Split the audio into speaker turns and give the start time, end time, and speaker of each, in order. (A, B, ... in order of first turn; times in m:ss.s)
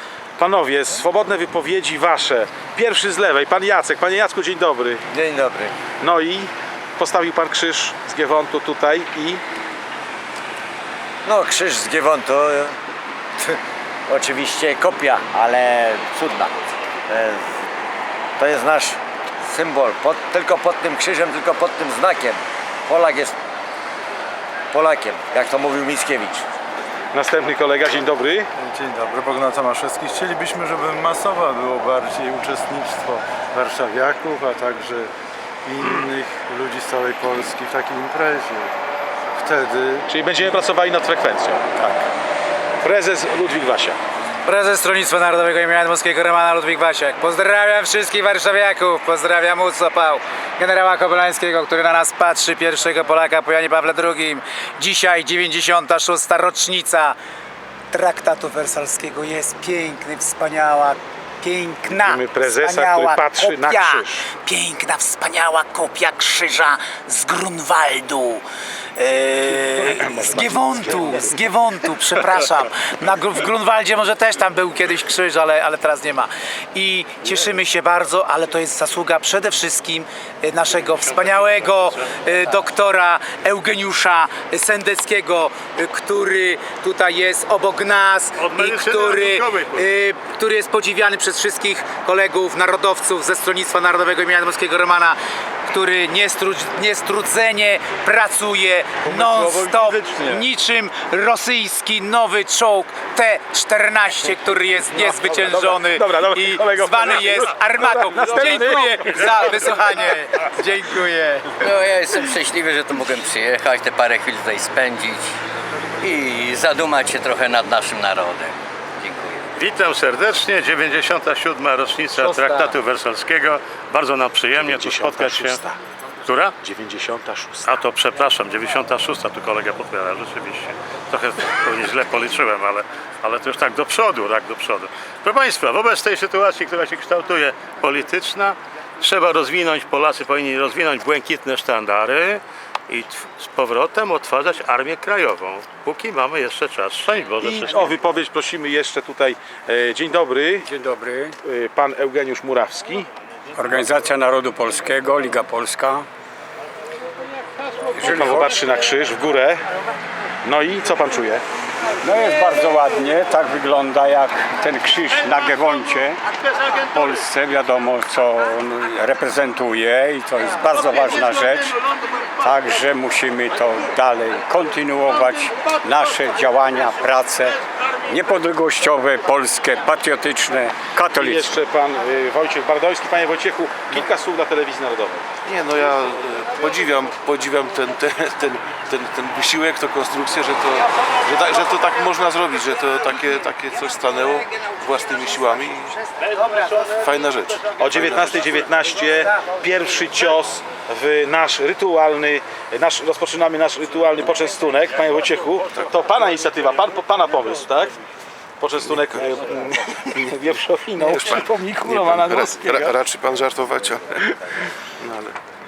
0:00.4-0:05.0 A
0:05.1-0:05.8 B
0:06.0-0:09.4 A
0:11.2-0:12.8 B
0:13.4-0:16.6 B
0:17.1-0:17.6 B
0:18.4-0:23.4 B
0:24.7-0:26.4 B
0:27.1-0:28.5 A
0:28.6-0:35.1 C
0:35.6-0:38.7 C
0:39.3-0:40.1 C
0:40.1-0:42.0 A
0:42.8-0:44.0 A
0:44.4-0:57.2 D
0:57.9-1:35.2 D
1:01.9-1:04.3 A
1:10.0-1:11.3 A
1:21.2-1:21.6 E
1:28.4-1:29.8 E
1:35.7-1:51.5 D
1:45.0-1:49.7 A
1:51.6-1:55.3 F
1:56.0-1:59.5 F
1:59.5-2:05.6 E
2:02.2-2:02.7 A
2:04.6-2:05.8 A
2:06.2-2:06.5 E
2:06.6-2:07.8 A
2:07.6-2:28.0 E
2:27.4-2:30.7 A
2:30.6-2:31.3 G
2:31.4-2:33.1 A
2:33.6-2:36.0 G
2:38.0-2:38.5 G
2:38.0-2:39.6 A
2:40.4-2:41.4 A
2:42.0-2:46.2 G
2:46.8-2:51.8 G
2:52.4-3:01.5 G
3:01.2-3:05.2 A
3:05.4-3:16.0 H
3:16.8-3:18.5 H
3:17.8-3:27.9 A
3:28.6-3:33.0 A
3:31.0-3:34.3 H
3:35.1-3:35.3 H